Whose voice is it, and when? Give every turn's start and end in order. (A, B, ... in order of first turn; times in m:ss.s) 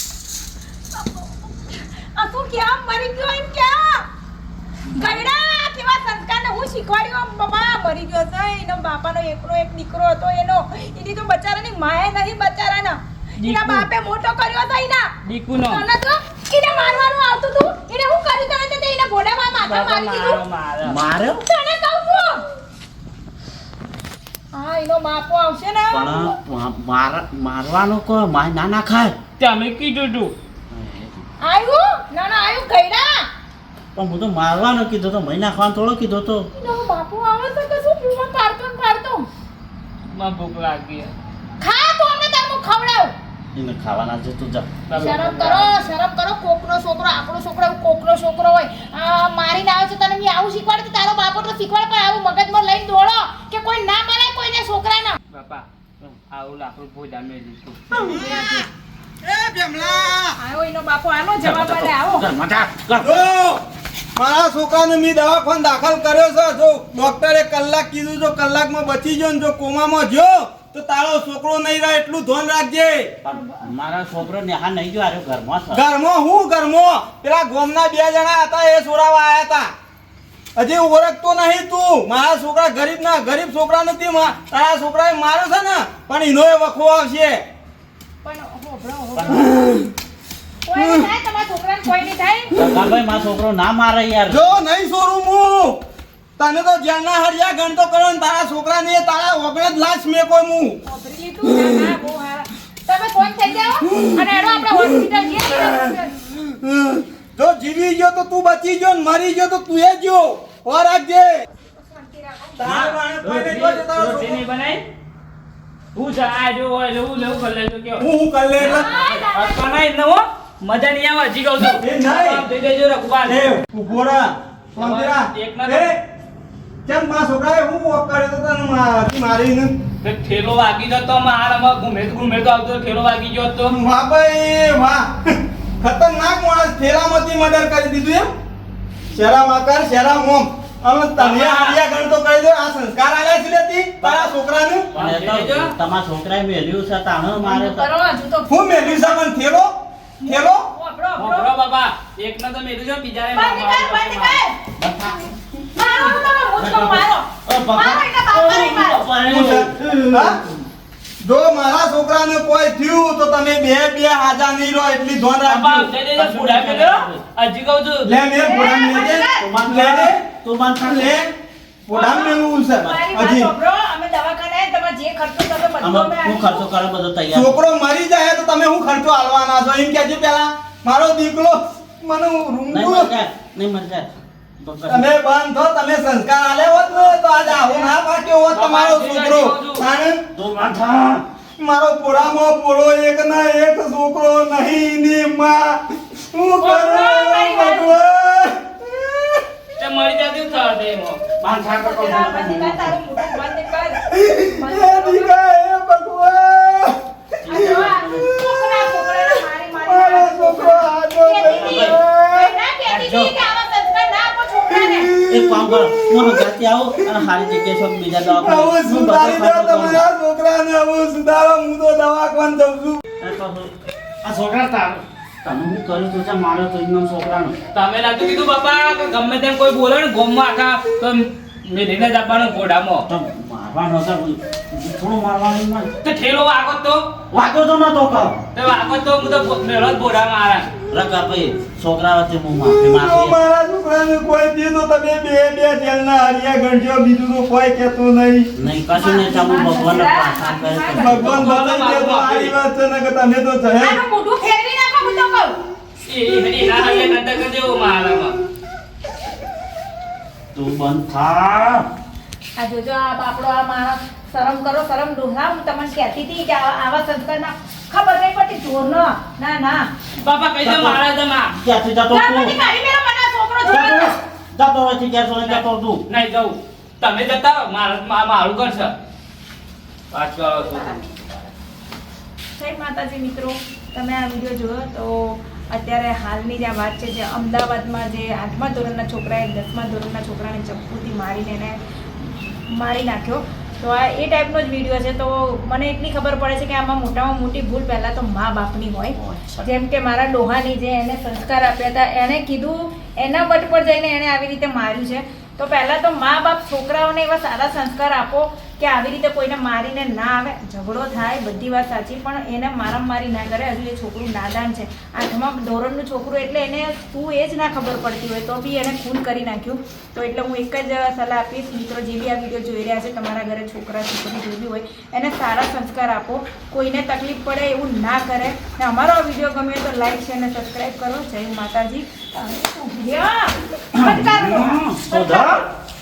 0:00.9-0:04.0 A
0:04.9-0:05.2 B
0:04.9-0:15.1 A
0:13.4-0:13.9 B
0:15.2-0:15.8 B
0:15.7-0:20.4 A
0:19.6-0:21.0 B
0:20.8-0:21.4 C
0:21.4-0:22.4 A
0:24.5-0:26.3 A
0:25.9-0:29.2 C
0:29.4-0:30.3 B
0:30.7-0:31.2 C
0:31.4-0:33.3 A
0:33.9-0:36.5 C
0:36.5-0:39.3 A
0:40.1-0:41.1 B
0:41.6-0:43.1 A
0:43.5-0:45.3 C
0:44.9-0:45.8 B
0:44.9-0:55.2 A
0:55.3-0:57.8 B
0:57.9-0:58.7 A
0:57.9-0:58.6 D
0:59.2-1:00.4 D
0:59.9-1:02.3 A
1:01.4-1:03.3 C
1:03.0-1:03.6 D
1:04.2-1:13.1 D
1:13.2-1:15.8 C
1:15.7-1:19.7 D
1:20.6-1:27.4 D
1:28.2-1:29.5 A
1:29.1-1:29.5 C
1:29.5-1:29.9 D
1:30.6-1:32.5 A
1:30.7-1:31.0 D
1:32.5-1:34.4 C
1:34.3-1:35.8 D
1:36.4-1:40.8 D
1:40.8-1:46.1 A
1:41.6-1:41.9 D
1:43.9-1:51.4 D
1:51.6-1:52.7 A
1:52.6-1:54.4 D
1:52.6-1:53.0 C
1:53.2-1:54.8 B
1:55.9-1:58.0 B
1:58.0-1:58.9 D
1:58.6-2:03.5 B
1:58.6-1:59.8 A
2:01.6-2:02.4 D
2:03.2-2:06.0 D
2:04.8-2:05.9 B
2:06.8-2:09.7 D
2:10.0-2:13.7 B
2:13.7-2:18.3 D
2:19.1-2:24.9 D
2:21.2-2:21.8 B
2:24.0-2:24.3 C
2:24.9-2:27.9 C
2:24.9-2:25.7 B
2:27.4-2:29.2 A
2:28.5-2:30.7 D
2:30.2-2:31.5 A
2:31.2-2:34.4 B
2:33.3-2:34.6 A
2:34.8-2:35.3 C
2:35.7-2:39.0 A
2:36.6-2:40.4 C
2:39.2-2:40.4 D
2:41.2-2:45.9 D
2:45.4-2:48.1 B
2:46.1-2:47.2 C
2:48.0-2:50.2 D
2:48.4-2:49.4 A
2:49.4-2:51.2 C
2:50.8-2:51.3 D
2:51.9-2:53.5 D
2:51.9-2:56.6 A
2:55.8-2:57.6 C
2:57.3-3:03.1 D
3:02.7-3:05.1 C
3:04.9-3:10.2 D
3:06.9-3:07.9 A
3:08.5-3:09.8 B
3:10.3-3:11.2 C
3:11.6-3:19.4 D
3:16.6-3:18.0 A
3:19.8-3:21.2 B
3:21.4-3:22.9 C
3:21.6-3:24.0 A
3:24.1-3:27.0 D
3:24.5-3:25.3 A
3:27.4-3:28.3 C
3:27.5-3:35.1 A
3:27.5-3:27.9 D
3:29.8-3:32.5 D
3:31.4-3:32.0 C
3:32.9-3:33.3 C
3:34.7-3:36.4 D
3:35.3-3:40.0 C
3:38.3-3:43.0 D
3:43.2-3:43.7 C
3:44.2-3:47.5 C
3:47.7-3:53.0 B
3:53.1-3:55.9 C
3:56.0-3:57.0 B
3:57.3-3:58.4 C
3:58.5-4:00.7 B
4:00.9-4:03.4 C
4:02.6-4:08.5 D
4:08.6-4:11.4 C
4:08.9-4:11.3 A
4:10.9-4:14.0 D
4:11.2-4:12.5 B
4:13.8-4:15.6 A
4:16.0-4:18.4 B
4:20.5-4:21.8 C
4:22.6-4:29.8 A
4:30.2-4:31.5 B
4:30.6-4:32.5 C
4:32.1-4:34.2 A
4:33.7-4:36.0 C
4:35.4-4:38.9 B
4:40.1-4:41.0 B
4:40.6-4:41.0 A
4:42.6-5:35.6 A
4:59.1-4:59.7 C
5:34.0-5:35.6 C